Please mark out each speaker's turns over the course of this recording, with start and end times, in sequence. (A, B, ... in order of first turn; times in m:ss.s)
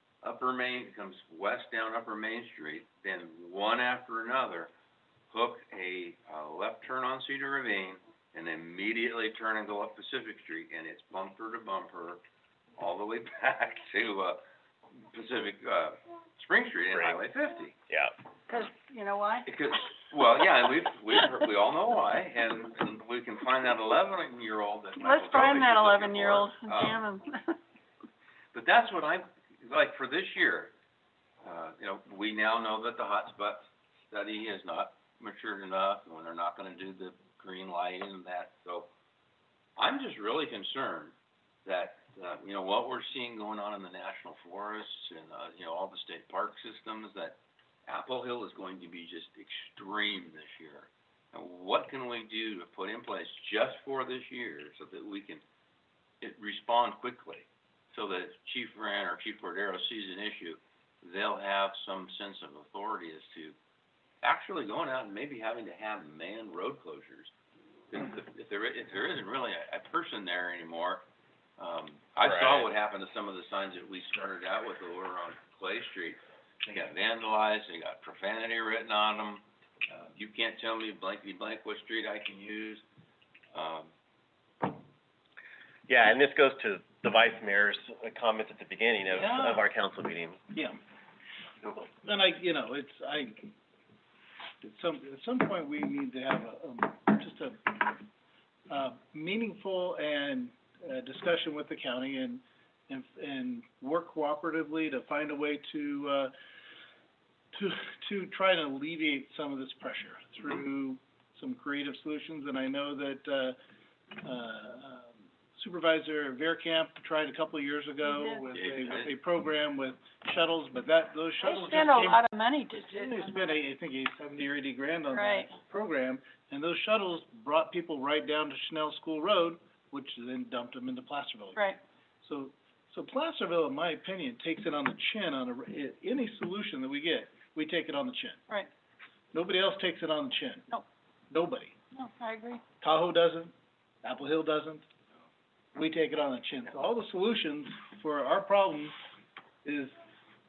0:00.2-0:04.7 A
0:05.3-0:12.2 A
0:12.8-0:14.4 A
0:15.0-0:17.8 A
0:16.9-0:17.2 B
0:18.5-0:19.5 C
0:19.5-0:27.0 A
0:25.0-0:27.6 C
0:28.5-0:30.7 A
0:31.4-0:38.9 A
0:39.8-0:41.1 A
0:41.6-0:55.4 A
0:56.2-1:03.6 A
1:04.2-1:07.3 A
1:07.9-1:11.0 A
1:11.6-1:19.4 A
1:12.2-1:12.7 B
1:20.0-1:22.8 A
1:23.5-1:23.9 A
1:25.9-1:30.4 B
1:31.7-1:33.5 D
1:34.6-1:38.0 D
1:38.7-1:46.3 D
1:47.5-1:53.6 D
1:54.2-2:18.4 D
1:58.0-1:58.4 C
1:58.5-1:59.1 A
2:01.4-2:03.3 C
2:05.1-2:05.5 C
2:19.3-2:20.7 D
2:21.3-2:21.8 D
2:22.0-2:22.6 C
2:22.8-2:23.5 D
2:24.0-2:24.8 D
2:25.8-2:28.9 D
2:29.6-2:29.9 D